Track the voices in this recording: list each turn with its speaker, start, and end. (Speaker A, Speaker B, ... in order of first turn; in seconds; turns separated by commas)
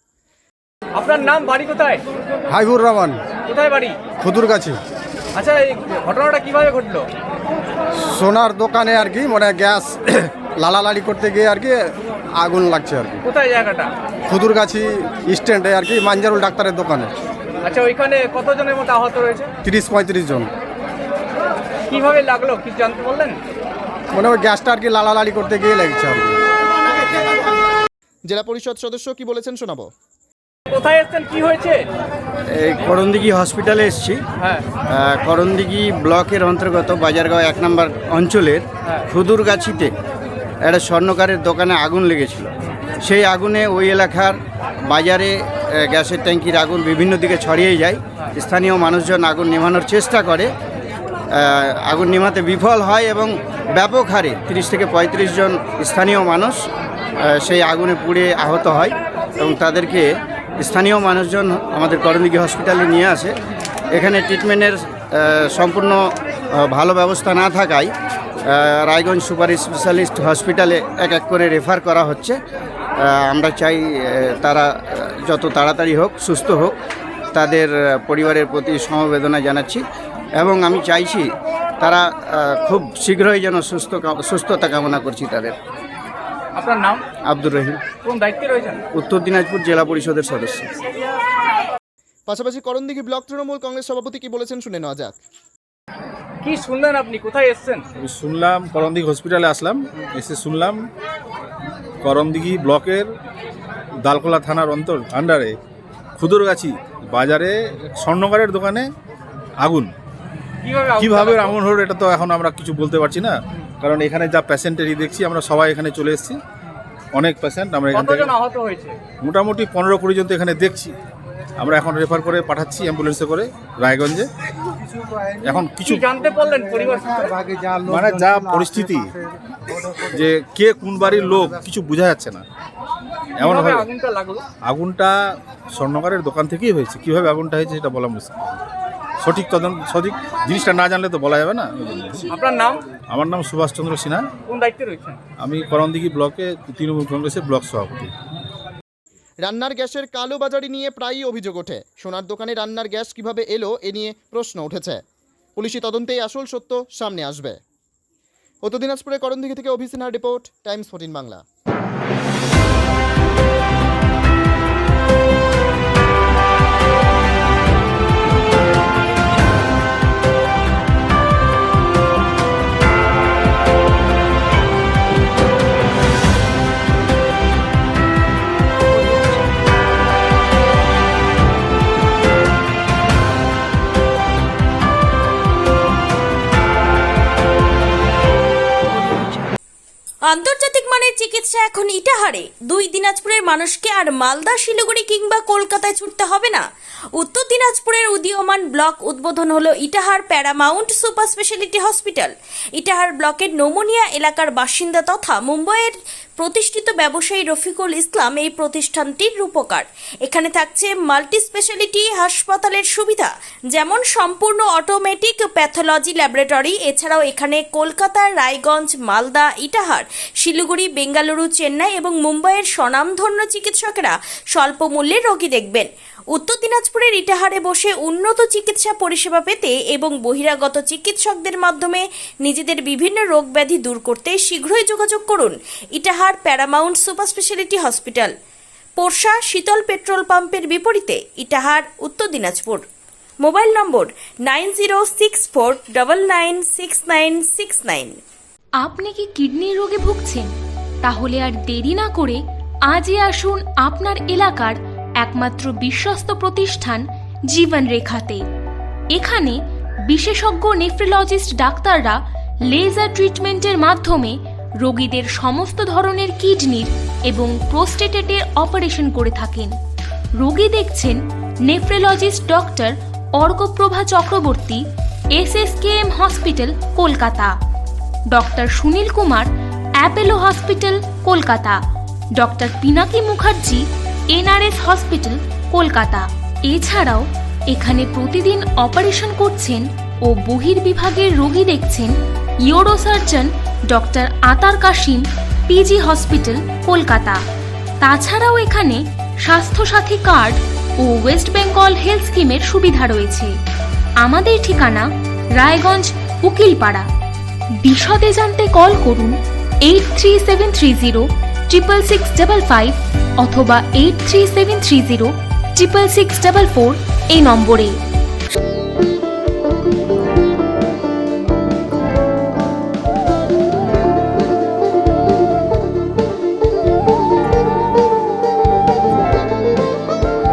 Speaker A: 1.0-2.0, Speaker B: 2.5-3.2, Speaker A: 3.5-4.0, Speaker B: 4.2-4.8, Speaker A: 5.3-7.1, Speaker B: 8.1-13.2, Speaker A: 13.2-13.9, Speaker B: 14.3-17.1, Speaker A: 17.6-19.5, Speaker B: 19.6-20.5, Speaker A: 21.9-23.4, Speaker B: 24.1-26.4, Speaker C: 28.3-29.9, Speaker A: 30.7-31.8, Speaker D: 32.5-34.2, Speaker A: 34.4-34.7, Speaker D: 34.9-39.9, Speaker D: 40.6-42.5, Speaker D: 43.0-50.5, Speaker D: 51.3-56.6, Speaker D: 57.2-60.0, Speaker D: 60.6-63.4, Speaker D: 63.9-67.9, Speaker D: 68.5-72.4, Speaker D: 73.0-76.7, Speaker D: 77.3-79.8, Speaker D: 80.4-85.5, Speaker A: 86.5-87.0, Speaker D: 87.3-87.8, Speaker A: 88.0-88.8, Speaker D: 88.9-90.7, Speaker C: 92.3-95.2, Speaker A: 96.4-97.8, Speaker E: 98.0-100.8, Speaker E: 102.0-103.1, Speaker E: 104.0-105.5, Speaker E: 106.2-108.9, Speaker E: 109.6-109.9, Speaker A: 110.6-111.5, Speaker E: 111.0-116.4, Speaker E: 117.1-118.3, Speaker A: 117.9-119.0, Speaker E: 119.2-120.9, Speaker E: 121.6-124.3, Speaker E: 125.4-126.0, Speaker A: 125.8-127.4, Speaker B: 127.5-127.8, Speaker E: 127.8-129.1, Speaker E: 130.0-132.4, Speaker E: 133.4-133.9, Speaker A: 133.4-134.4, Speaker E: 134.6-135.2, Speaker E: 135.7-138.6, Speaker E: 139.2-142.2, Speaker A: 142.3-142.8, Speaker E: 143.1-144.2, Speaker A: 144.5-145.2, Speaker E: 145.4-148.1, Speaker C: 149.4-155.0, Speaker C: 155.6-157.6, Speaker C: 158.6-161.4, Speaker F: 190.2-196.6, Speaker F: 197.2-238.3, Speaker F: 239.0-242.8, Speaker F: 243.4-248.2, Speaker G: 248.8-250.5, Speaker G: 251.0-258.4, Speaker G: 259.1-259.6, Speaker G: 260.1-262.2, Speaker G: 262.7-269.7, Speaker G: 270.4-274.8, Speaker G: 275.4-277.5, Speaker G: 278.3-281.8, Speaker G: 282.4-292.1, Speaker G: 292.6-297.4, Speaker G: 298.0-303.5, Speaker G: 304.2-307.1, Speaker G: 307.8-317.9